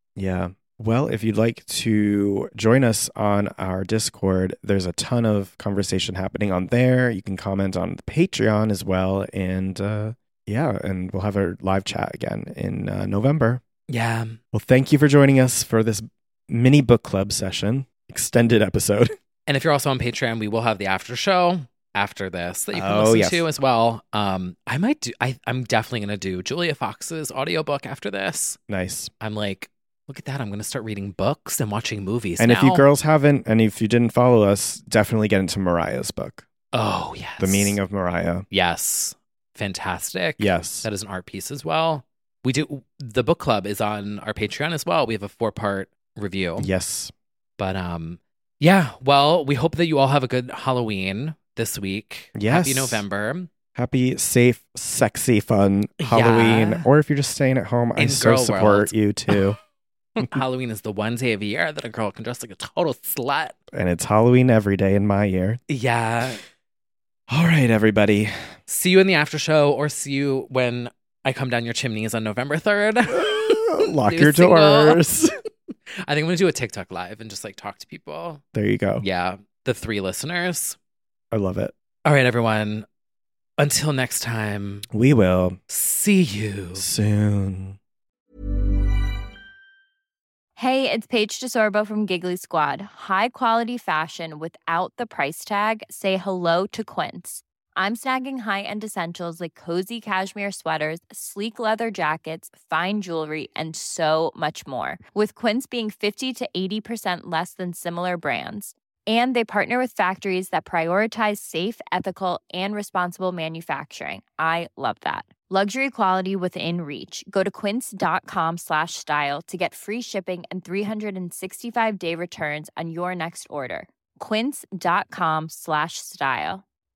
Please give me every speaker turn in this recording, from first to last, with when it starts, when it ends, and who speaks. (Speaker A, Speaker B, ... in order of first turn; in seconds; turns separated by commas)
Speaker A: 0.1-13.6, Speaker B: 13.9-14.4, Speaker A: 14.5-19.1, Speaker B: 19.5-28.6, Speaker A: 22.7-23.4, Speaker A: 28.7-29.1, Speaker B: 29.2-32.9, Speaker A: 32.4-36.5, Speaker B: 36.7-37.8, Speaker A: 37.4-38.5, Speaker B: 38.5-46.7, Speaker A: 40.4-40.9, Speaker A: 46.6-47.1, Speaker B: 47.6-53.5, Speaker A: 52.3-53.0, Speaker A: 53.7-59.6, Speaker B: 56.0-56.8, Speaker B: 58.0-59.5, Speaker B: 60.2-63.5, Speaker A: 63.7-65.6, Speaker B: 65.7-66.4, Speaker A: 67.3-68.5, Speaker B: 68.7-75.0, Speaker A: 73.1-75.3, Speaker B: 76.0-78.4, Speaker A: 78.5-79.0, Speaker B: 79.0-80.8, Speaker A: 81.3-81.7, Speaker B: 82.0-82.8, Speaker B: 83.6-84.9, Speaker A: 84.9-85.6, Speaker B: 85.7-86.8, Speaker A: 86.7-87.8, Speaker C: 90.5-126.6